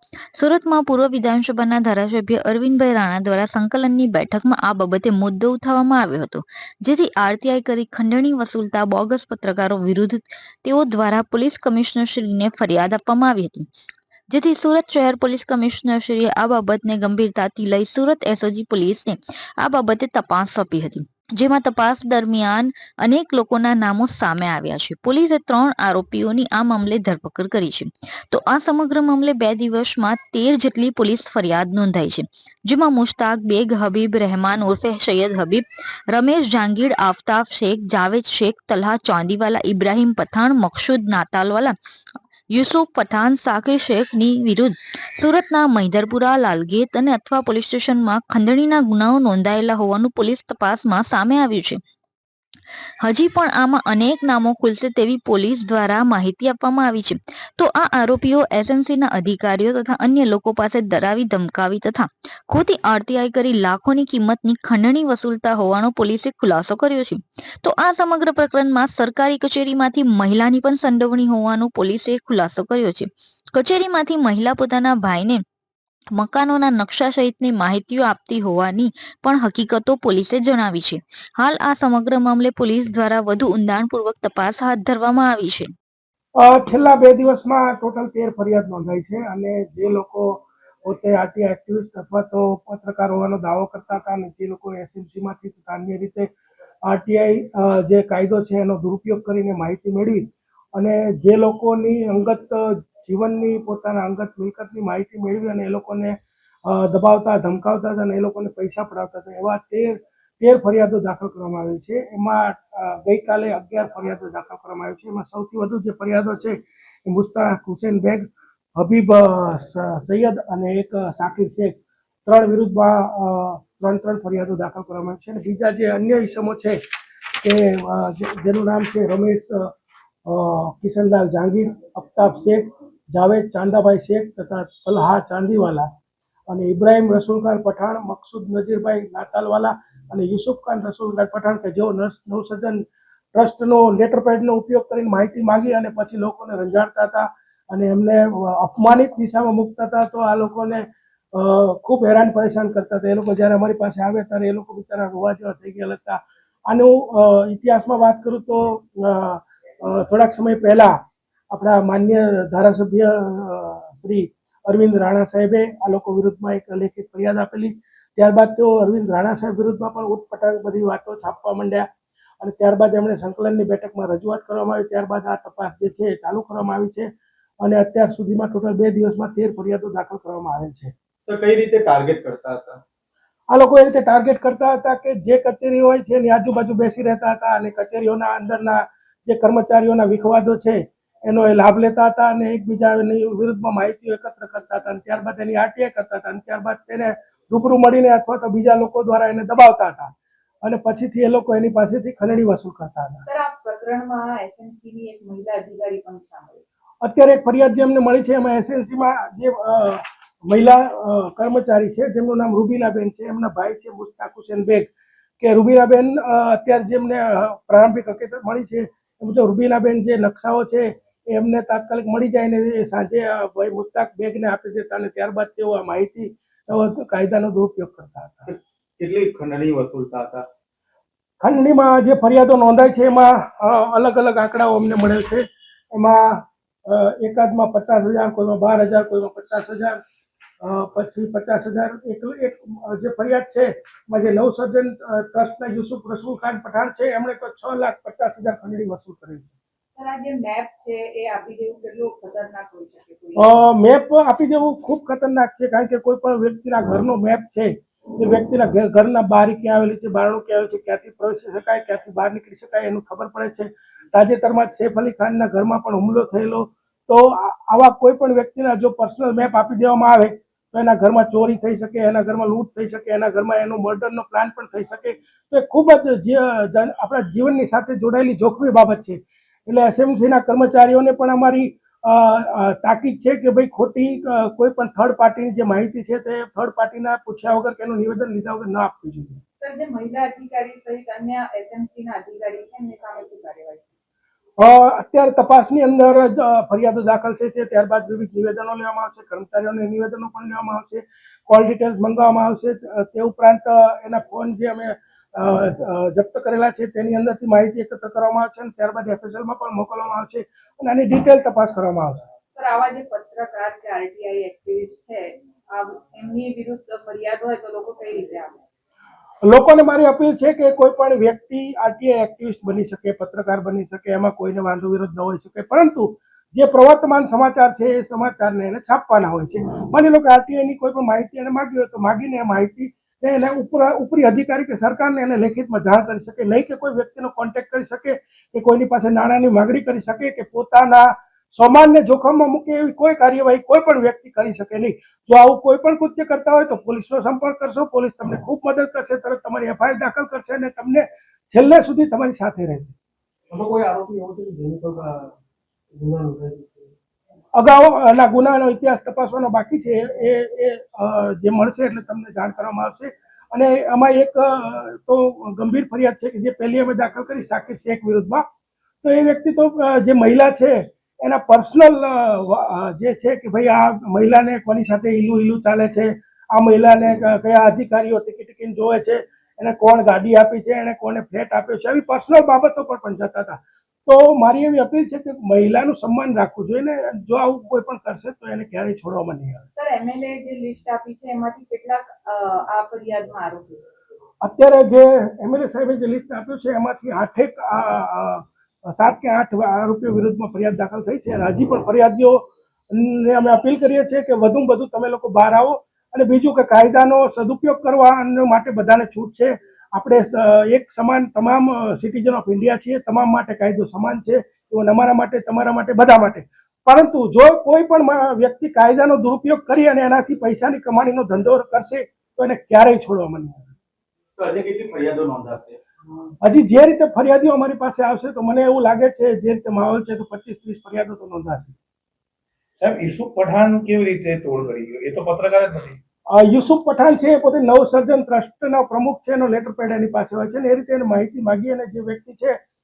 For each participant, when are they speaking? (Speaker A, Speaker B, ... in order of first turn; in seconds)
Speaker A: 0.4-13.6, 14.3-41.8, 42.5-51.8, 53.0-75.4, 76.1-85.7
Speaker B: 86.4-96.3, 96.9-106.1, 106.7-126.8, 127.4-129.7, 130.3-135.9, 136.5-142.8, 143.3-150.8, 151.3-160.9, 161.5-171.8, 172.4-177.1, 177.6-180.9, 183.5-200.1, 200.6-203.2, 207.0-214.9, 215.4-228.5, 231.4-240.0, 240.6-249.5, 253.4-289.4, 294.6-312.3, 319.4-352.9, 357.6-368.4, 369.0-389.6, 394.4-423.7, 426.4-431.8, 436.3-442.6
Speaker C: 181.2-182.8, 228.5-230.4, 424.4-425.8
Speaker D: 203.2-206.6, 249.9-253.5, 289.6-293.9, 312.6-318.6, 389.8-393.9
Speaker E: 353.5-355.3, 355.9-356.7
Speaker F: 432.8-436.0